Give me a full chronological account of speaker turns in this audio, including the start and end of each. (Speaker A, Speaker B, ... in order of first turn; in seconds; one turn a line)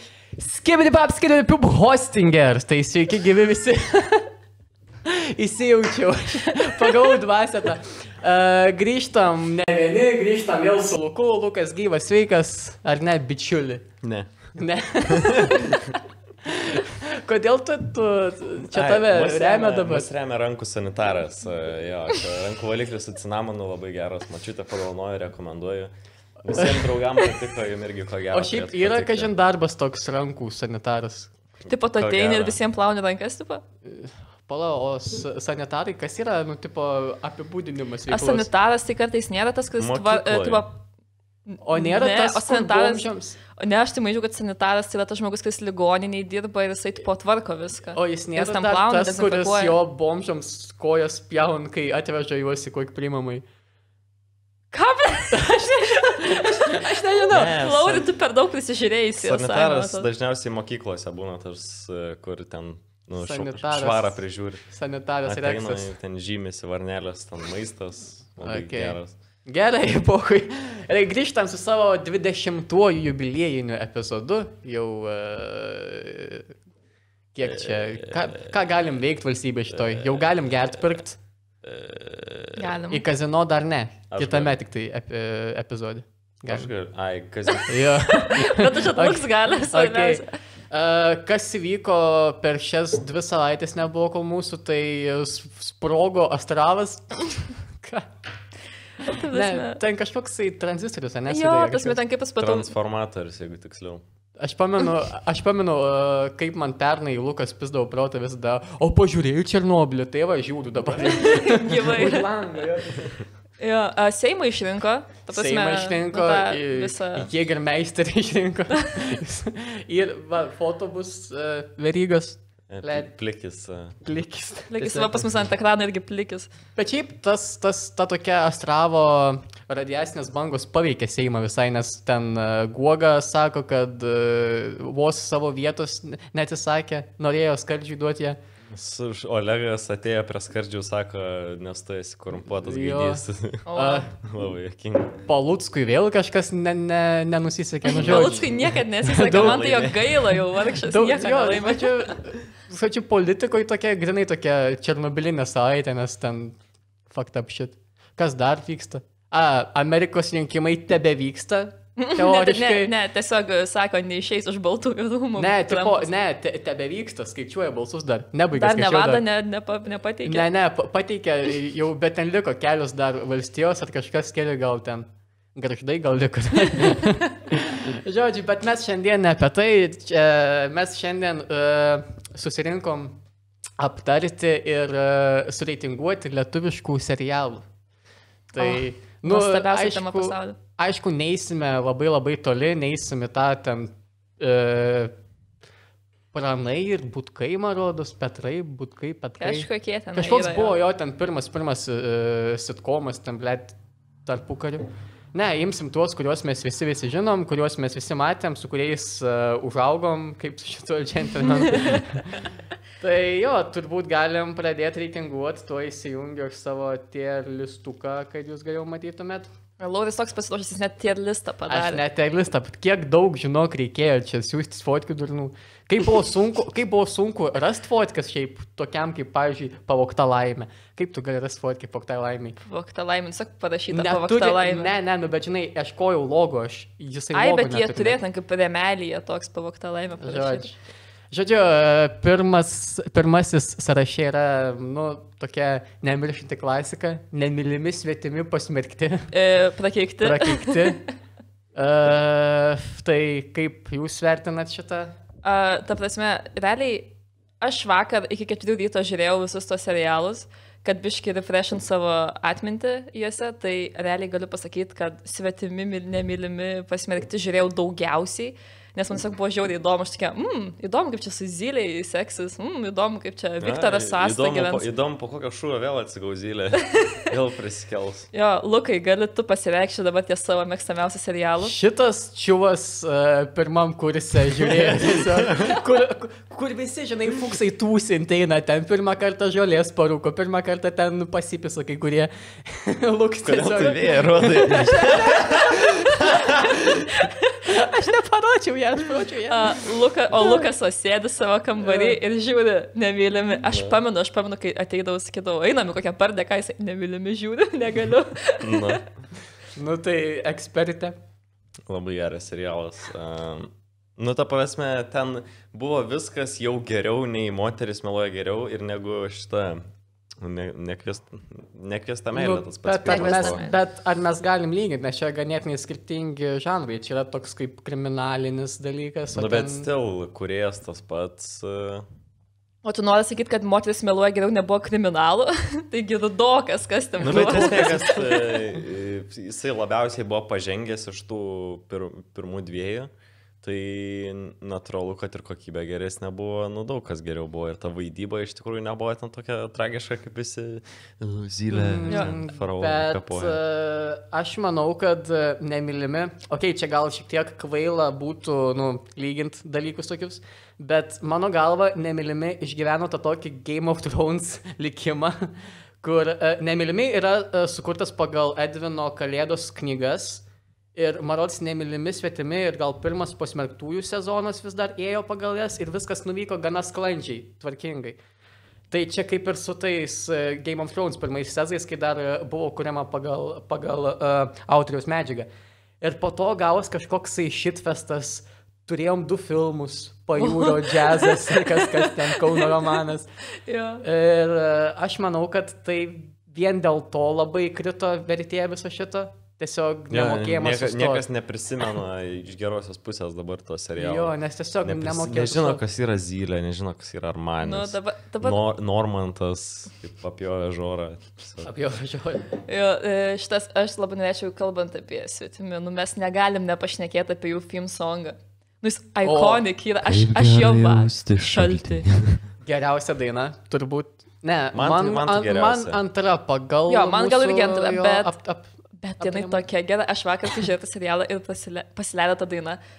Speaker A: 0.3-4.3
Speaker A: 5.0-13.8
Speaker B: 14.0-14.5
Speaker A: 14.5-15.8
Speaker B: 15.1-15.9
Speaker A: 16.4-20.1
Speaker B: 18.7-29.3
Speaker A: 26.6-26.9
Speaker A: 28.3-31.3
Speaker B: 31.6-32.6
Speaker C: 31.7-33.6
Speaker A: 33.8-38.5
Speaker C: 38.1-40.8
Speaker B: 39.8-40.6
Speaker C: 41.5-49.8
Speaker A: 41.6-43.4
Speaker A: 47.9-53.4
Speaker C: 54.7-60.0
Speaker A: 55.3-57.6
Speaker B: 57.3-58.1
Speaker B: 59.2-64.6
Speaker A: 63.2-65.9
Speaker B: 65.2-69.1
Speaker A: 68.4-76.5
Speaker A: 77.3-81.2
Speaker B: 77.5-78.5
Speaker B: 79.7-80.9
Speaker B: 81.6-82.7
Speaker C: 82.6-83.0
Speaker A: 82.9-86.7
Speaker B: 84.1-84.5
Speaker B: 86.5-88.0
Speaker C: 87.5-90.3
Speaker A: 87.7-98.1
Speaker C: 99.0-99.8
Speaker A: 99.3-102.0
Speaker C: 101.3-102.7
Speaker B: 102.4-104.0
Speaker A: 104.4-113.2
Speaker C: 111.1-112.3
Speaker C: 113.6-117.3
Speaker A: 115.3-123.1
Speaker B: 122.7-124.0
Speaker A: 124.0-125.1
Speaker C: 124.7-126.5
Speaker A: 126.8-138.4
Speaker B: 138.7-145.3
Speaker A: 142.6-144.1
Speaker C: 143.7-144.1
Speaker A: 145.3-148.5
Speaker C: 147.8-152.1
Speaker B: 147.9-150.2
Speaker A: 149.0-149.6
Speaker A: 150.8-156.6
Speaker A: 157.1-162.9
Speaker C: 162.0-166.1
Speaker A: 165.3-169.2
Speaker C: 168.5-170.5
Speaker A: 170.2-183.2
Speaker A: 183.8-187.6
Speaker A: 188.5-195.1
Speaker C: 188.6-190.6
Speaker A: 196.3-212.5
Speaker C: 199.4-200.7
Speaker C: 211.7-212.0
Speaker A: 213.0-219.5
Speaker C: 219.8-222.0
Speaker A: 221.7-232.6
Speaker C: 232.6-234.9
Speaker A: 233.9-238.2
Speaker C: 237.3-240.7
Speaker A: 240.2-240.7
Speaker A: 241.3-249.3
Speaker C: 249.3-251.1
Speaker A: 250.2-251.0
Speaker A: 251.7-255.1
Speaker C: 255.4-274.9
Speaker B: 273.6-278.3
Speaker C: 278.3-281.7
Speaker A: 281.6-297.0
Speaker B: 284.7-285.8
Speaker B: 293.4-296.9
Speaker C: 295.8-296.3
Speaker C: 297.2-297.5
Speaker A: 297.6-299.8
Speaker C: 299.5-309.0
Speaker A: 300.4-300.6
Speaker A: 301.8-302.2
Speaker B: 303.7-304.0
Speaker B: 308.6-309.0
Speaker A: 309.7-311.1
Speaker B: 311.9-319.8
Speaker B: 320.4-323.6
Speaker A: 322.3-329.9
Speaker C: 323.1-323.7
Speaker B: 329.3-332.1
Speaker C: 332.8-338.7
Speaker B: 337.2-343.1
Speaker A: 337.2-337.9
Speaker B: 343.6-353.6
Speaker A: 351.7-378.2
Speaker A: 378.9-385.5
Speaker A: 386.0-393.3
Speaker C: 390.4-392.9
Speaker C: 393.6-394.0
Speaker A: 394.0-401.2
Speaker B: 400.1-411.7
Speaker A: 404.0-405.8
Speaker C: 407.6-408.6
Speaker A: 411.6-412.4
Speaker C: 412.6-422.1
Speaker A: 419.2-419.6
Speaker B: 420.0-422.4
Speaker A: 422.6-429.6
Speaker B: 424.7-426.0
Speaker C: 426.9-428.3
Speaker C: 429.0-432.8